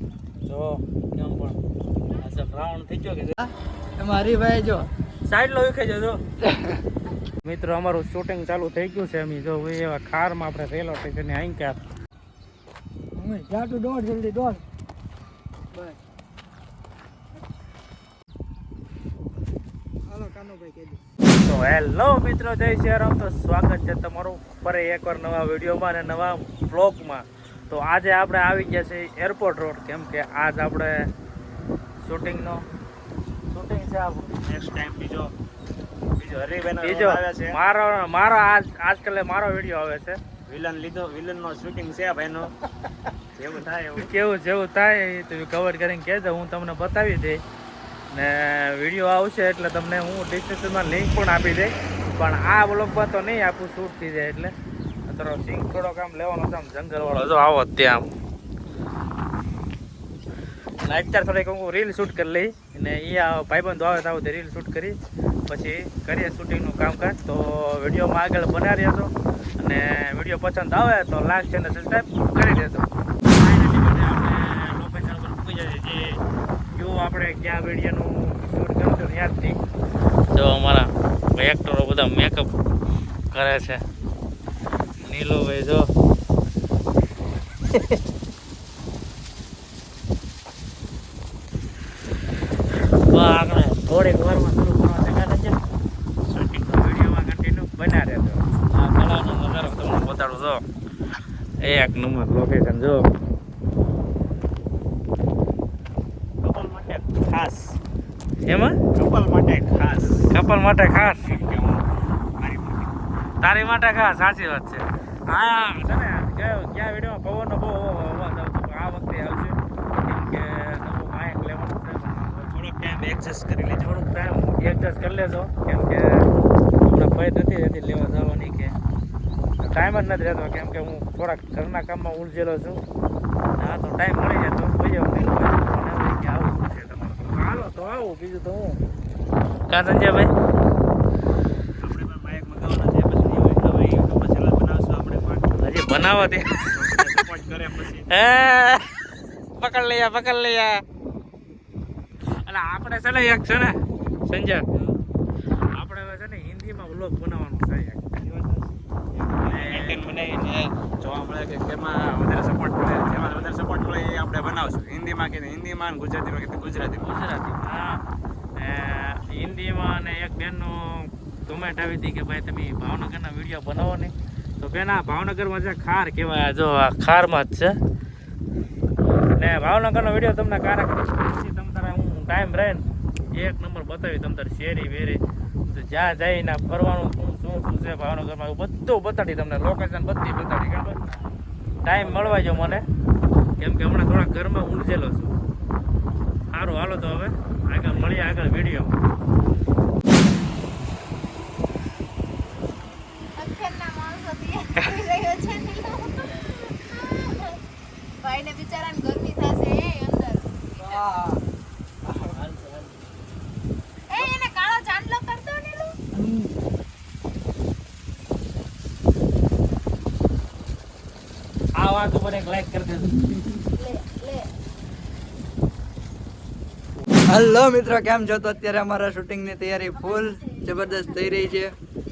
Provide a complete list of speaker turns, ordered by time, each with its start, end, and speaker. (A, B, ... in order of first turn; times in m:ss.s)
0:00.5-0:01.6 A
0:02.2-0:03.4 A
0:03.4-0:04.9 B
0:05.3-0:06.2 A
0:06.4-0:06.8 B
0:07.4-0:11.8 A
0:13.2-0:14.6 B
0:20.1-0:21.0 B
0:21.3-0:30.9 A
0:32.0-0:32.6 A
0:33.5-0:34.3 A
0:34.4-0:35.3 C
0:36.2-0:37.6 C
0:36.8-0:40.2 A
0:40.5-0:42.5 C
0:43.4-0:44.1 C
0:44.0-0:47.4 A
0:48.1-0:54.5 A
0:55.1-0:58.1 A
1:00.8-1:05.0 A
1:05.5-1:16.2 A
1:16.7-1:19.6 A
1:20.3-1:22.5 A
1:23.3-1:23.8 A
1:25.0-1:25.9 A
1:27.7-1:28.0 A
1:33.1-1:35.6 A
1:36.3-1:36.7 C
1:36.6-1:40.6 A
1:41.6-1:43.1 A
1:46.4-1:47.6 C
1:48.5-1:48.7 A
1:48.9-1:50.3 C
1:50.3-1:51.4 A
1:51.3-1:51.9 C
1:52.4-1:52.9 C
1:53.4-2:02.5 A
2:02.5-2:03.9 C
2:03.8-2:06.3 A
2:06.8-2:08.8 A
2:09.6-2:12.8 A
2:13.6-2:18.8 A
2:19.7-2:20.3 A
2:21.8-2:25.6 C
2:25.6-2:27.1 A
2:26.8-2:28.1 C
2:28.1-2:30.8 A
2:32.4-2:34.6 A
2:35.8-2:38.0 A
2:38.2-2:38.7 C
2:39.4-2:47.1 C
2:39.5-2:40.0 A
2:47.0-2:48.0 A
2:48.6-2:57.8 A
2:59.4-3:05.2 A
3:05.7-3:11.0 A
3:11.8-3:12.8 A
3:13.6-3:15.3 A
3:16.5-3:19.0 A
3:23.4-3:27.6 D
3:28.2-3:30.8 D
3:30.8-3:31.4 B
3:32.1-3:32.3 B
3:32.3-3:32.9 A
3:34.1-3:36.0 D
3:36.1-3:36.5 B
3:41.8-3:43.1 A
3:43.1-3:43.6 B
3:43.8-3:44.5 D
3:47.3-3:51.7 B
3:49.9-3:51.2 D